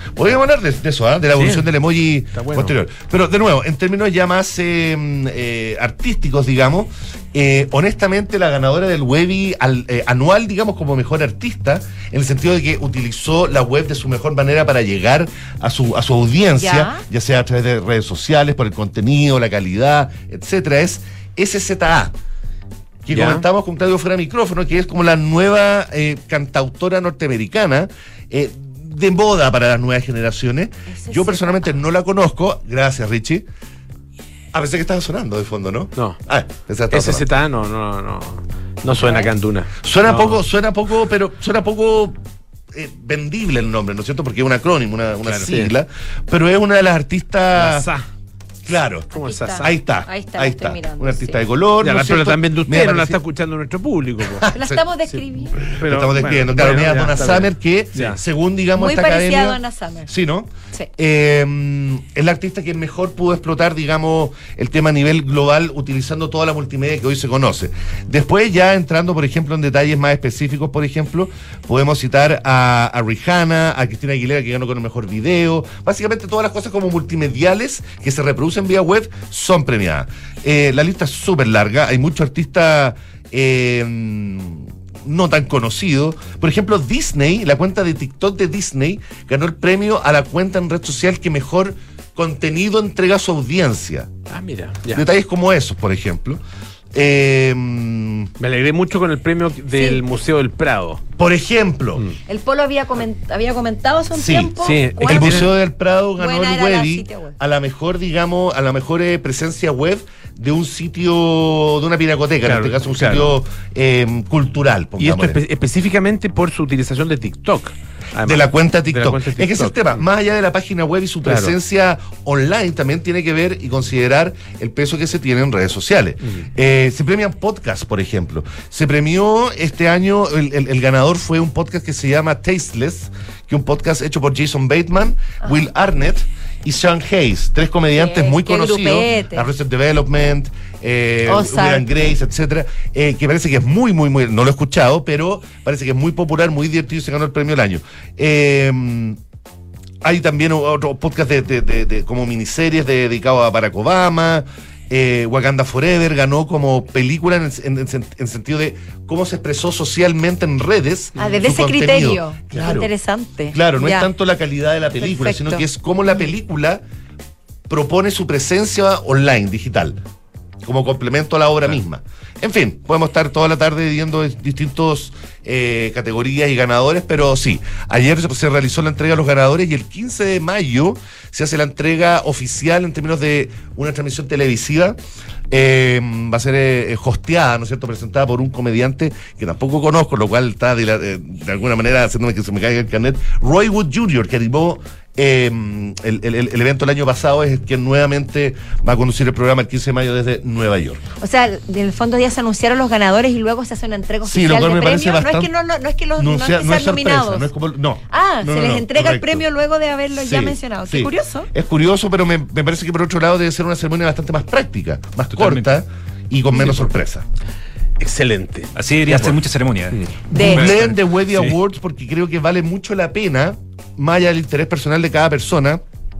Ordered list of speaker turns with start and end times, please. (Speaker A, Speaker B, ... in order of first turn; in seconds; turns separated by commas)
Speaker A: 0.1-22.1, Speaker B: 1.3-1.7, Speaker B: 2.3-2.8, Speaker C: 16.6-17.0, Speaker A: 23.0-33.4, Speaker B: 23.1-23.4, Speaker C: 30.9-31.7, Speaker A: 34.5-37.2, Speaker B: 36.9-40.4, Speaker C: 39.0-39.3, Speaker A: 39.8-42.2, Speaker A: 42.7-47.9, Speaker B: 45.2-45.7, Speaker B: 47.5-48.1, Speaker A: 48.6-53.2, Speaker B: 49.1-49.7, Speaker C: 49.2-51.5, Speaker B: 51.8-54.5, Speaker A: 54.4-54.8, Speaker C: 54.5-55.7, Speaker B: 55.1-58.2, Speaker A: 55.6-94.1, Speaker C: 58.7-60.1, Speaker B: 94.3-95.0, Speaker A: 94.9-96.4, Speaker A: 96.9-98.3, Speaker B: 98.4-101.0, Speaker C: 99.7-100.0, Speaker A: 101.2-102.0, Speaker C: 102.2-105.5, Speaker A: 104.1-115.4, Speaker B: 104.6-105.5, Speaker C: 106.2-107.4, Speaker B: 112.4-113.3, Speaker B: 115.0-120.0, Speaker A: 118.2-149.2, Speaker B: 121.2-121.5, Speaker C: 135.4-135.7, Speaker C: 137.9-139.5, Speaker C: 141.2-141.8, Speaker A: 150.0-162.9, Speaker C: 161.2-164.1, Speaker A: 163.5-166.8, Speaker C: 165.0-165.6, Speaker A: 167.7-170.0, Speaker A: 170.6-185.0, Speaker A: 185.5-201.0, Speaker C: 201.2-207.5, Speaker A: 204.3-205.5, Speaker A: 206.2-209.4, Speaker C: 208.1-211.5, Speaker A: 210.1-217.2, Speaker D: 215.3-215.8, Speaker B: 216.5-216.9, Speaker B: 218.0-219.4, Speaker D: 218.8-221.6, Speaker C: 220.3-220.8, Speaker A: 220.3-225.8